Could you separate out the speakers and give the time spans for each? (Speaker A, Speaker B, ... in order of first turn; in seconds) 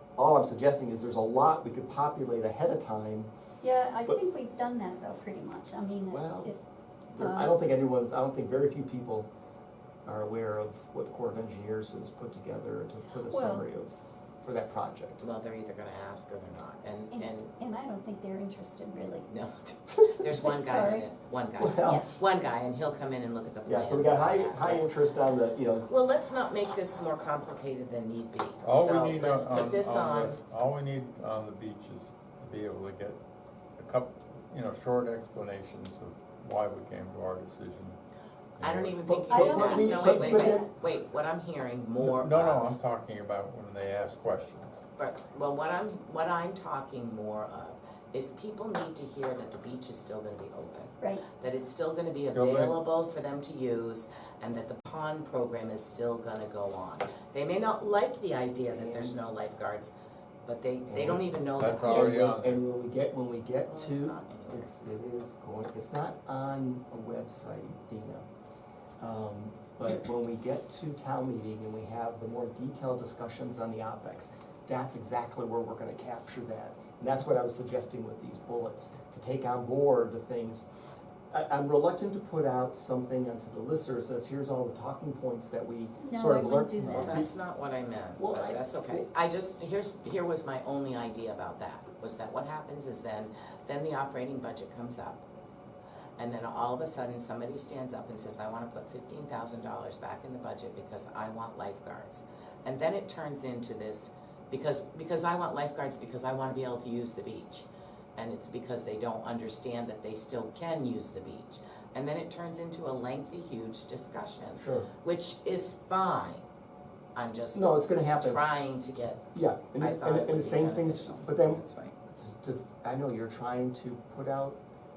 Speaker A: 0.2-3.3, 6.1-6.5, 7.1-9.3, 10.1-15.2, 21.6-22.1, 23.6-25.9, 39.0-40.7, 58.7-59.1, 60.9-68.2, 69.0-80.6, 81.3-87.3, 88.2-89.1, 114.6-114.9, 117.5-118.4, 119.3-124.6
Speaker B: 3.6-6.6, 7.2-7.5, 13.3-13.7, 17.1-19.3, 20.2-21.1, 39.3-40.7, 51.0-51.2, 86.0-87.2
Speaker C: 15.2-17.5, 19.3-24.9, 25.9-30.4, 38.6-42.7, 45.0-59.9, 60.4-62.2, 63.7-64.7, 86.8-95.2, 96.2-116.4, 117.1-119.2, 119.8-121.9
Speaker D: 28.6-33.2, 33.8-38.0, 38.6-39.0, 42.0-44.8, 52.3-52.8, 61.6-62.6